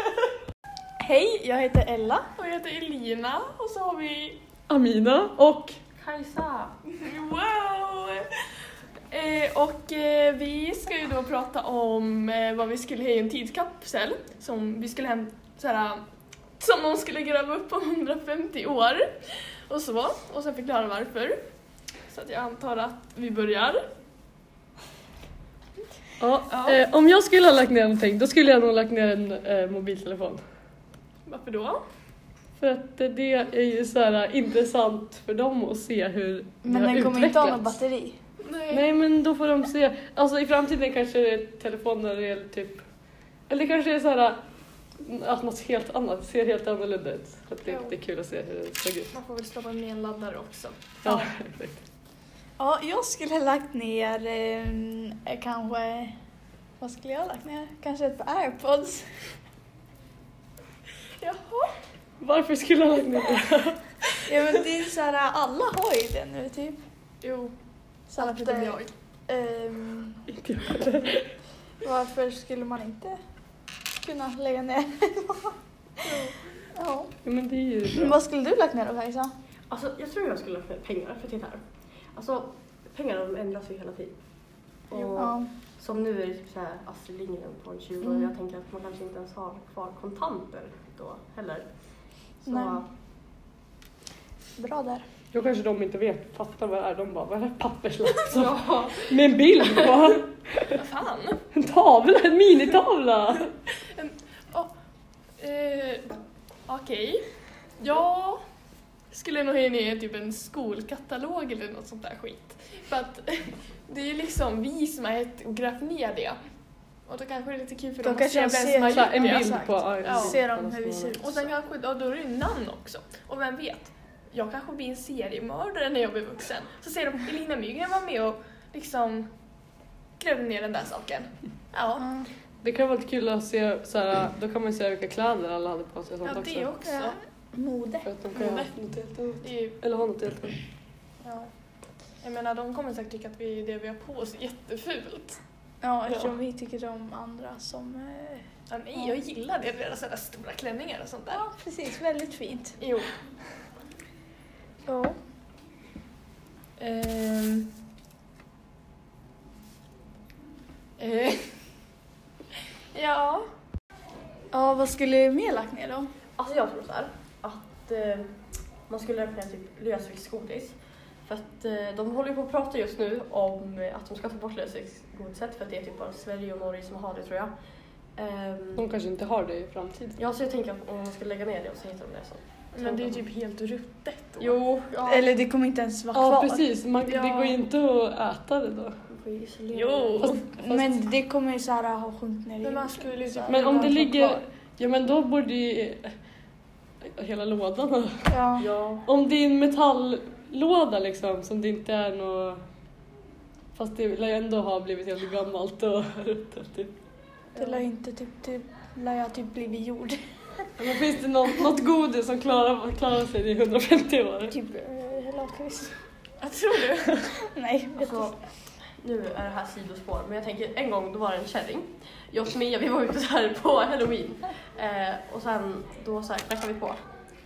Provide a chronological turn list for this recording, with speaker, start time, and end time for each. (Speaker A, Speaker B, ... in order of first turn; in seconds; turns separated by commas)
Speaker A: 1.0-4.4, Speaker B: 4.7-5.8, Speaker C: 6.0-6.7, Speaker A: 7.0-8.3, Speaker A: 9.1-16.0, Speaker A: 16.6-21.4, Speaker A: 22.1-23.9, Speaker B: 26.2-30.4, Speaker A: 26.5-26.8, Speaker A: 31.2-31.8, Speaker B: 32.6-37.8, Speaker D: 36.6-38.2, Speaker A: 38.4-38.9, Speaker B: 38.7-42.8, Speaker B: 43.5-44.4, Speaker B: 45.0-49.1, Speaker A: 47.6-48.0, Speaker A: 49.1-50.9, Speaker B: 51.0-51.8, Speaker D: 52.6-56.1, Speaker D: 56.8-59.3, Speaker A: 61.2-61.7, Speaker B: 62.2-63.8, Speaker D: 64.3-66.8, Speaker A: 67.2-67.5, Speaker D: 68.1-70.2, Speaker A: 68.2-68.9, Speaker B: 70.3-71.3, Speaker D: 71.8-73.2, Speaker D: 74.0-77.1, Speaker A: 76.0-76.4, Speaker B: 77.2-78.2, Speaker D: 77.9-79.3, Speaker C: 79.7-81.6, Speaker C: 82.1-92.8, Speaker D: 85.2-85.5, Speaker D: 92.5-92.8, Speaker D: 94.6-95.0, Speaker B: 95.3-100.8, Speaker C: 98.3-100.0, Speaker A: 100.7-101.4, Speaker B: 101.5-103.5, Speaker A: 103.8-104.7, Speaker A: 105.4-107.2, Speaker A: 107.8-108.4, Speaker A: 109.1-116.4, Speaker A: 117.0-120.4, Speaker D: 118.0-121.4, Speaker B: 118.9-121.2, Speaker A: 121.2-129.3, Speaker A: 130.2-132.1, Speaker D: 132.0-132.3, Speaker B: 132.6-136.7, Speaker A: 136.2-137.2, Speaker D: 136.8-138.1, Speaker B: 138.0-140.6, Speaker A: 138.3-138.7, Speaker A: 139.4-139.8, Speaker A: 141.2-141.5, Speaker A: 142.2-145.4, Speaker D: 145.8-149.1, Speaker B: 146.1-146.3, Speaker A: 148.7-151.4, Speaker D: 151.3-152.8, Speaker A: 152.8-153.1, Speaker D: 154.8-155.2, Speaker C: 156.8-157.6, Speaker A: 157.2-157.5, Speaker A: 161.0-161.5, Speaker A: 162.9-163.5, Speaker D: 164.5-166.1, Speaker C: 166.4-168.3, Speaker C: 168.9-178.8, Speaker B: 178.8-180.2, Speaker C: 180.2-183.3, Speaker A: 182.7-184.6, Speaker C: 184.4-185.2, Speaker D: 185.0-186.7, Speaker B: 186.1-188.9, Speaker A: 187.0-187.6, Speaker C: 189.1-190.4, Speaker A: 189.7-190.4, Speaker D: 190.2-194.4, Speaker A: 192.6-194.1, Speaker B: 193.5-196.1, Speaker B: 197.0-198.3, Speaker D: 198.3-198.7, Speaker C: 198.6-199.0, Speaker B: 199.0-202.6, Speaker B: 203.8-206.9, Speaker A: 207.5-207.8, Speaker D: 207.6-210.7, Speaker B: 210.8-214.5, Speaker D: 214.5-216.0, Speaker A: 216.4-217.3, Speaker D: 217.4-218.3, Speaker C: 218.0-227.1